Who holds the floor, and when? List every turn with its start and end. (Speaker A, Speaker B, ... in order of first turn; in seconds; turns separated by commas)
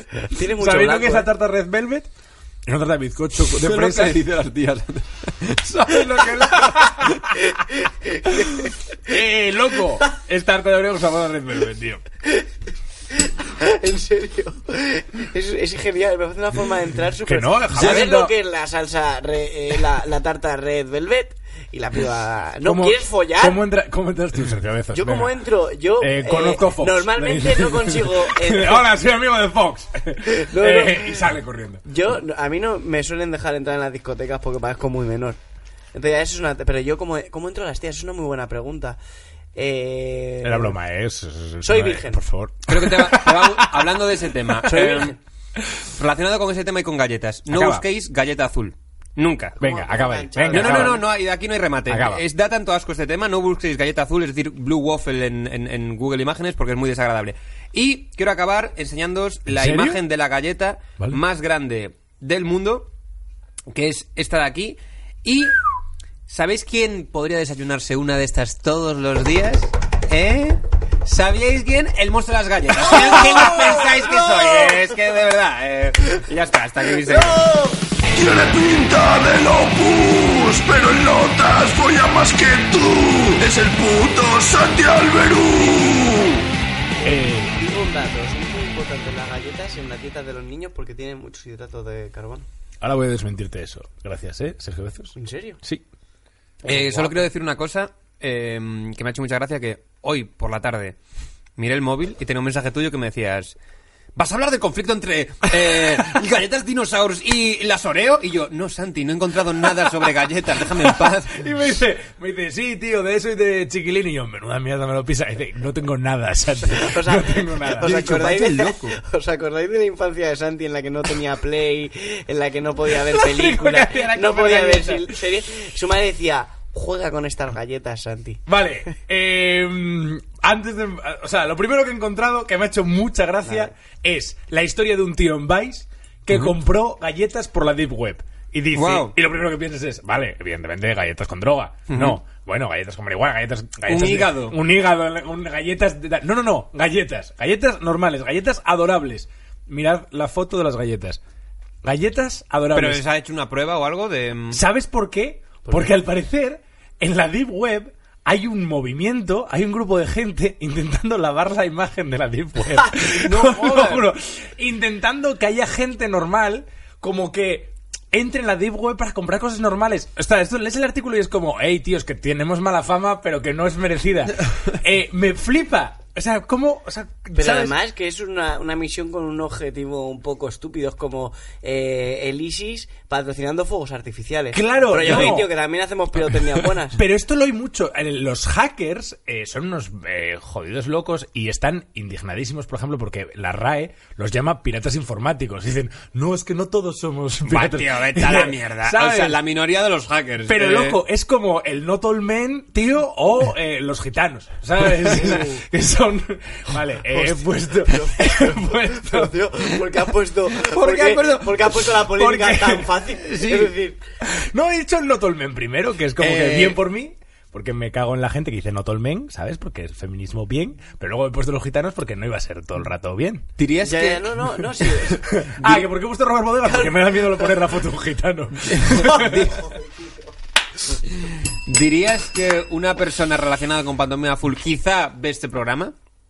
Speaker A: 0.3-1.3, Speaker B: 0.5-2.1, Speaker B: 2.7-4.2, Speaker C: 3.5-7.2, Speaker B: 5.7-7.2, Speaker A: 7.8-8.7, Speaker B: 8.5-12.0, Speaker A: 13.2-23.6, Speaker B: 17.2-18.3, Speaker B: 22.6-25.4, Speaker A: 24.9-28.9, Speaker B: 26.0-31.8, Speaker A: 30.4-31.3, Speaker A: 31.9-35.4, Speaker A: 35.9-39.0, Speaker A: 39.5-40.8, Speaker B: 40.4-45.9, Speaker A: 41.6-42.2, Speaker C: 42.7-45.2, Speaker A: 44.7-45.2, Speaker C: 46.0-49.6, Speaker B: 47.5-47.9, Speaker B: 49.6-51.0, Speaker A: 49.6-51.0, Speaker C: 50.5-62.9, Speaker B: 51.9-52.2, Speaker B: 59.5-60.0, Speaker C: 63.7-65.5, Speaker C: 66.3-77.4, Speaker A: 73.2-74.9, Speaker A: 77.0-77.8, Speaker D: 78.1-86.5, Speaker B: 87.0-87.6, Speaker A: 87.5-92.5, Speaker B: 92.8-95.8, Speaker A: 95.2-95.6, Speaker C: 96.7-101.0, Speaker A: 96.7-97.3, Speaker C: 101.6-103.5, Speaker C: 104.2-111.4, Speaker B: 110.7-118.1, Speaker A: 116.7-128.5, Speaker C: 117.8-119.0, Speaker B: 123.0-125.2, Speaker B: 128.5-151.2, Speaker A: 133.5-133.7, Speaker C: 138.7-139.2, Speaker C: 141.9-142.2, Speaker C: 143.9-144.6, Speaker B: 151.8-153.0, Speaker C: 152.7-154.6, Speaker B: 154.5-177.8, Speaker C: 163.1-164.0, Speaker A: 177.4-187.0, Speaker B: 184.5-185.5, Speaker C: 185.1-185.3, Speaker B: 186.9-199.4, Speaker C: 197.5-201.0, Speaker B: 200.5-209.3, Speaker A: 205.2-205.5, Speaker A: 207.1-214.0, Speaker C: 210.7-211.8, Speaker B: 211.9-212.9, Speaker C: 213.3-213.7, Speaker B: 214.2-223.5, Speaker C: 216.2-216.8, Speaker C: 223.6-224.4, Speaker A: 223.8-225.4, Speaker B: 225.1-229.6, Speaker C: 225.6-225.9, Speaker A: 226.7-227.6, Speaker C: 228.7-229.4, Speaker A: 228.9-230.3, Speaker C: 231.5-235.9